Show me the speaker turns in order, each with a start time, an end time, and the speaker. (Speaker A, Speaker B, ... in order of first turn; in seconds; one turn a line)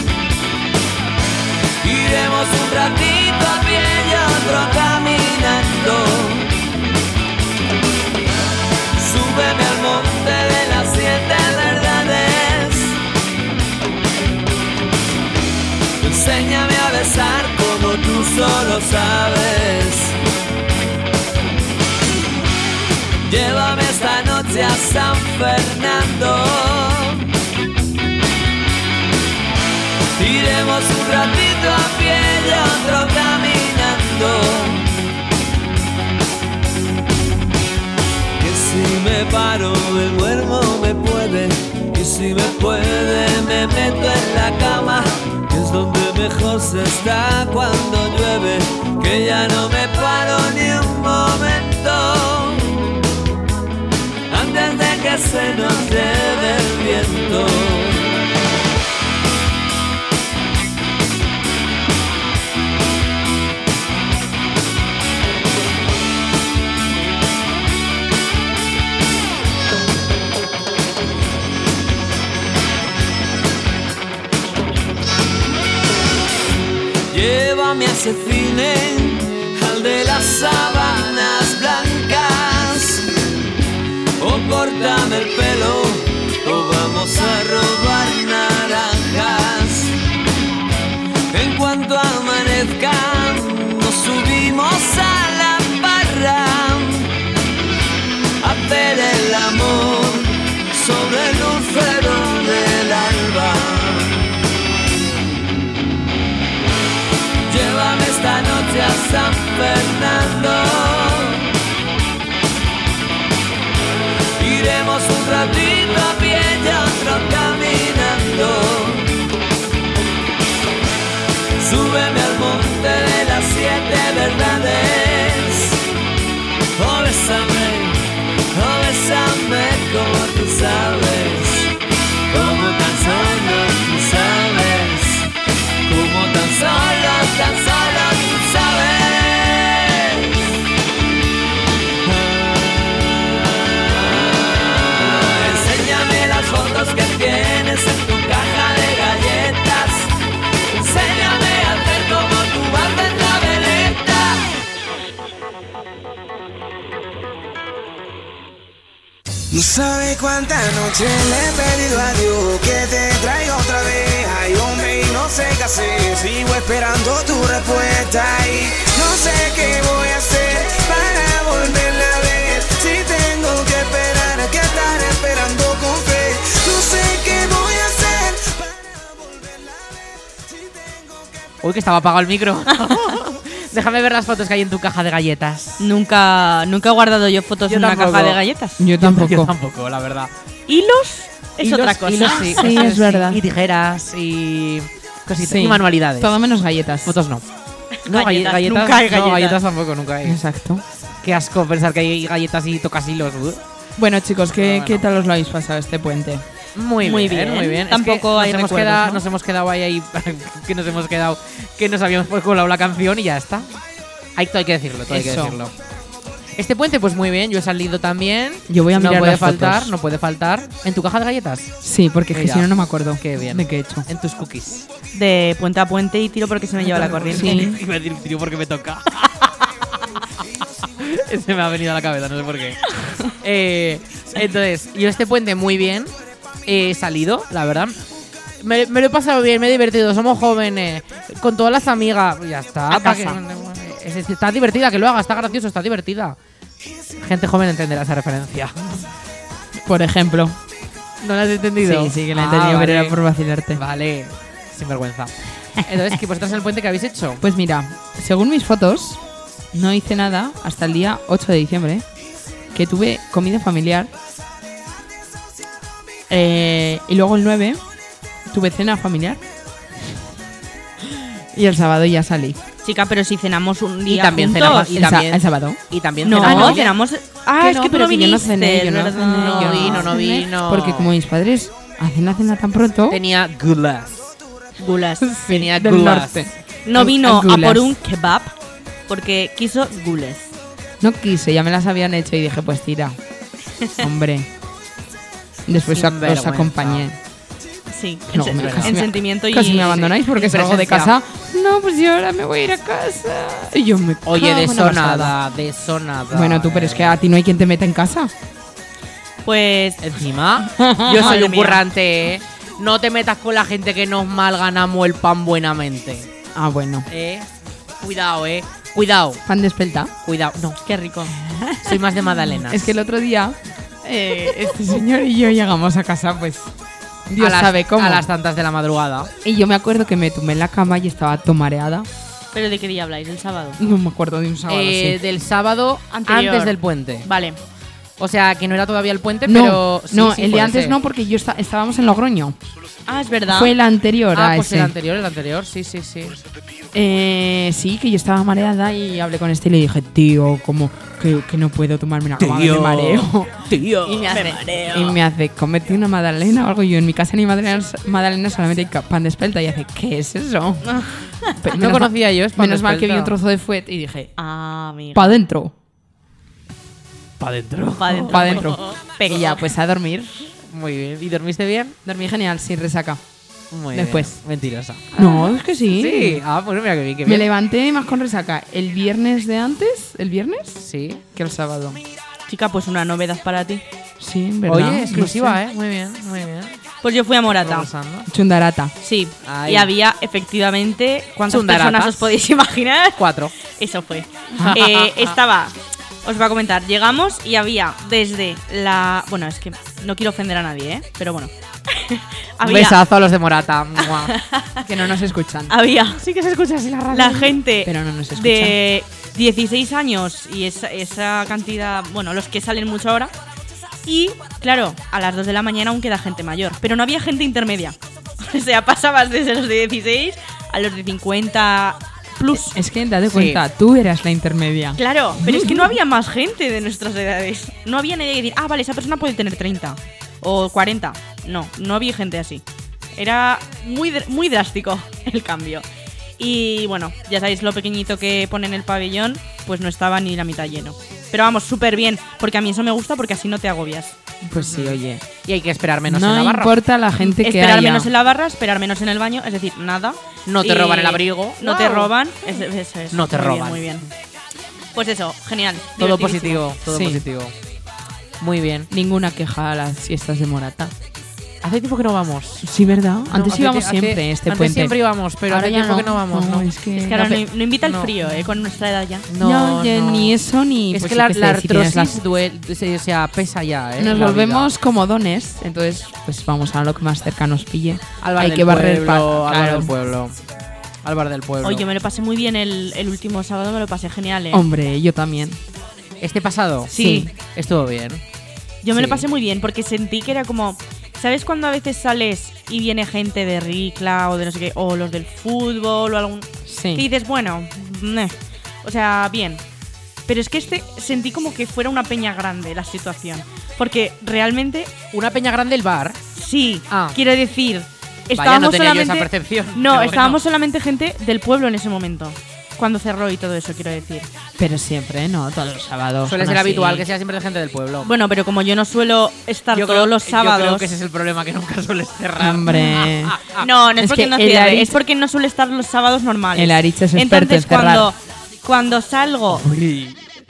Speaker A: 1.8-6.5
Speaker A: 9.0-13.0
Speaker A: 16.0-20.2
Speaker A: 23.2-27.3
Speaker A: 30.1-34.9
Speaker A: 38.4-52.9
Speaker A: 54.3-58.2
Speaker A: 77.1-83.1
Speaker A: 84.2-89.9
Speaker A: 91.3-97.1
Speaker A: 98.4-104.2
Speaker A: 107.5-111.5
Speaker A: 114.4-119.1
Speaker A: 121.6-125.8
Speaker A: 126.8-131.7
Speaker A: 132.3-135.3
Speaker A: 135.8-140.5
Speaker A: 142.0-143.1
Speaker A: 143.9-150.1
Speaker A: 150.7-154.4
Speaker B: 159.5-178.9
Speaker C: 181.6-185.8
Speaker D: 185.8-188.8
Speaker C: 187.7-188.4
Speaker E: 188.8-189.5
Speaker C: 189.0-190.3
Speaker D: 190.7-193.2
Speaker C: 191.6-196.3
Speaker E: 192.2-193.4
Speaker E: 195.4-197.2
Speaker C: 197.0-197.4
Speaker D: 198.0-199.6
Speaker C: 198.1-200.4
Speaker E: 200.2-200.8
Speaker C: 201.2-203.6
Speaker E: 204.0-206.4
Speaker C: 204.5-205.0
Speaker C: 206.8-213.8
Speaker D: 207.0-209.2
Speaker C: 214.3-215.7
Speaker E: 215.1-215.6
Speaker C: 216.6-221.8
Speaker E: 218.7-219.9
Speaker E: 221.8-224.1
Speaker C: 222.3-224.8
Speaker D: 225.1-227.6
Speaker C: 226.9-229.7
Speaker E: 227.2-227.8
Speaker C: 231.0-236.1
Speaker C: 236.7-238.0
Speaker C: 238.6-246.4
Speaker D: 242.9-243.4
Speaker C: 247.2-249.1
Speaker E: 249.8-250.6
Speaker C: 251.2-253.2
Speaker E: 251.8-253.8
Speaker C: 253.7-257.4
Speaker E: 257.4-259.2
Speaker E: 259.7-262.0
Speaker E: 262.7-264.1
Speaker E: 266.3-267.8
Speaker E: 268.5-269.4
Speaker E: 271.5-272.6
Speaker D: 272.8-275.0
Speaker C: 274.1-276.9
Speaker E: 274.7-275.8
Speaker D: 276.2-280.1
Speaker E: 276.3-276.8
Speaker C: 277.6-277.9
Speaker E: 277.6-283.2
Speaker C: 279.2-281.1
Speaker C: 283.1-284.3
Speaker D: 284.8-285.3
Speaker E: 285.2-288.0
Speaker C: 285.5-286.4
Speaker D: 286.9-288.5
Speaker D: 289.1-290.5
Speaker E: 291.0-293.2
Speaker E: 294.0-294.5
Speaker E: 295.7-297.2
Speaker C: 295.9-297.1
Speaker D: 297.9-300.2
Speaker E: 298.3-305.4
Speaker C: 298.5-298.9
Speaker C: 300.3-301.1
Speaker C: 304.2-307.2
Speaker E: 306.3-308.3
Speaker D: 309.4-310.0
Speaker C: 310.0-316.3
Speaker E: 310.6-311.4
Speaker D: 311.1-311.8
Speaker E: 316.5-317.1
Speaker C: 317.1-319.4
Speaker E: 319.4-320.1
Speaker C: 320.2-320.8
Speaker D: 320.8-321.3
Speaker E: 321.4-326.7
Speaker C: 321.8-322.9
Speaker E: 327.3-328.3
Speaker C: 327.4-329.3
Speaker E: 329.4-332.1
Speaker D: 332.5-333.8
Speaker E: 333.8-335.2
Speaker C: 334.7-337.3
Speaker D: 336.1-337.6
Speaker C: 338.2-340.9
Speaker E: 339.4-342.6
Speaker D: 343.1-343.7
Speaker E: 343.5-344.9
Speaker C: 344.3-346.4
Speaker E: 346.9-364.3
Speaker C: 352.4-354.5
Speaker D: 354.1-355.2
Speaker D: 360.8-361.6
Speaker C: 361.7-363.3
Speaker D: 364.4-365.4
Speaker E: 365.1-365.7
Speaker C: 367.4-368.6
Speaker D: 368.0-369.6
Speaker E: 368.1-370.5
Speaker C: 370.6-372.0
Speaker E: 372.0-373.2
Speaker C: 373.7-375.3
Speaker E: 373.9-374.4
Speaker E: 375.1-376.4
Speaker C: 375.9-377.5
Speaker E: 377.2-380.8
Speaker C: 380.8-381.2
Speaker E: 381.3-382.0
Speaker D: 382.5-383.8
Speaker E: 384.2-385.6
Speaker C: 384.7-386.8
Speaker D: 387.0-387.9
Speaker C: 387.6-388.3
Speaker E: 388.3-388.9
Speaker D: 389.0-403.0
Speaker C: 389.4-389.9
Speaker C: 391.5-392.3
Speaker C: 393.2-393.5
Speaker C: 394.6-395.3
Speaker C: 402.6-404.3
Speaker D: 404.0-404.9
Speaker E: 404.9-405.8
Speaker D: 405.7-406.2
Speaker C: 406.1-407.6
Speaker D: 407.1-413.3
Speaker E: 407.8-408.8
Speaker D: 414.0-422.8
Speaker E: 422.5-425.9
Speaker C: 423.3-423.6
Speaker D: 425.0-432.6
Speaker D: 433.1-435.8
Speaker D: 436.4-444.1
Speaker E: 444.4-445.2
Speaker C: 444.6-446.7
Speaker E: 446.1-448.1
Speaker D: 447.2-454.1
Speaker C: 450.4-452.1
Speaker C: 453.1-454.0
Speaker D: 454.9-456.6
Speaker C: 456.0-457.5
Speaker E: 456.9-457.2
Speaker C: 458.4-458.9
Speaker E: 458.9-460.9
Speaker C: 461.6-462.7
Speaker E: 462.6-467.4
Speaker C: 463.3-466.7
Speaker D: 467.0-469.2
Speaker C: 467.8-468.1
Speaker C: 469.3-470.4
Speaker E: 469.4-472.2
Speaker C: 470.9-474.7
Speaker E: 474.0-479.9
Speaker C: 478.2-480.4
Speaker C: 481.0-481.9
Speaker D: 481.6-484.6
Speaker E: 484.5-485.6
Speaker C: 486.2-488.2
Speaker D: 486.9-487.3
Speaker E: 486.9-487.3
Speaker D: 488.8-499.6
Speaker C: 488.9-489.2
Speaker E: 496.6-497.1
Speaker D: 500.3-504.9
Speaker C: 505.1-506.2
Speaker D: 506.4-514.3
Speaker C: 506.9-507.2
Speaker C: 508.4-510.4
Speaker E: 514.6-517.1
Speaker C: 516.2-518.1
Speaker D: 518.0-520.9
Speaker C: 519.7-523.7
Speaker E: 522.4-523.4
Speaker D: 523.6-529.6
Speaker E: 524.0-525.0
Speaker E: 526.5-528.1
Speaker C: 529.5-530.2